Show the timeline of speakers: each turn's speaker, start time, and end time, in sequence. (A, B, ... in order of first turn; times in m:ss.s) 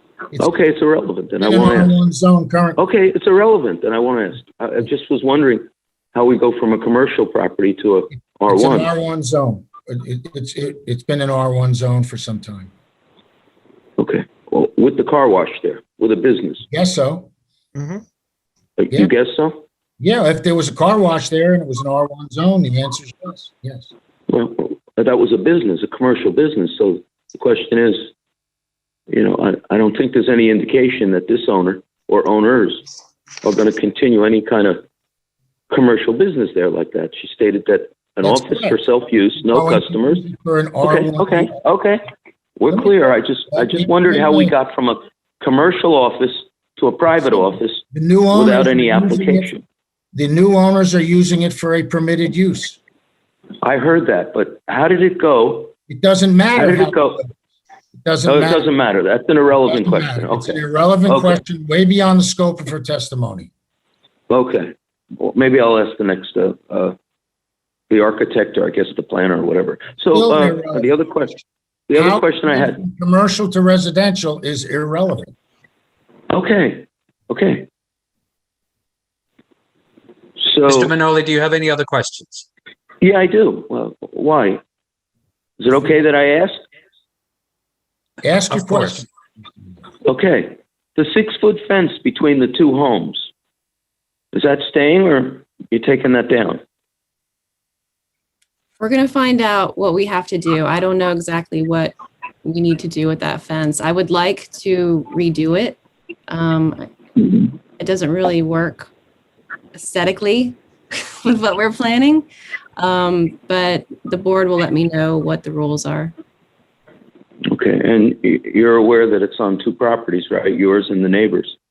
0:00.4-0:01.9 A
0:01.4-0:02.8 B
0:02.8-0:08.9 A
0:08.1-0:12.7 B
0:14.0-0:16.6 A
0:16.7-0:17.3 B
0:17.8-0:18.0 C
0:18.8-0:19.6 A
0:20.0-0:23.9 B
0:24.3-0:28.1 A
0:29.1-0:32.8 A
0:33.4-0:34.8 A
0:35.7-0:40.2 A
0:38.2-0:38.9 B
0:39.4-0:41.6 B
0:40.8-0:42.0 A
0:42.6-0:49.6 A
0:42.7-0:44.6 B
0:47.9-0:49.5 B
0:50.1-0:52.8 B
0:53.6-0:55.7 A
0:55.9-0:57.3 B
0:56.5-0:57.2 A
0:58.0-0:58.7 B
0:58.3-1:01.4 A
0:59.7-1:03.5 B
1:04.3-1:07.0 A
1:07.9-1:12.8 A
1:10.1-1:11.4 B
1:11.9-1:15.3 B
1:16.3-1:17.7 A
1:20.4-1:20.9 A
1:20.7-1:22.5 C
1:23.0-1:24.6 A
1:25.6-1:26.6 A
1:28.2-1:29.1 B
1:28.5-1:29.0 C
1:30.0-1:33.3 A
1:34.3-1:36.6 A
1:38.8-1:48.9 D
1:49.7-1:52.3 D
1:52.8-1:56.1 D
1:57.5-2:01.6 A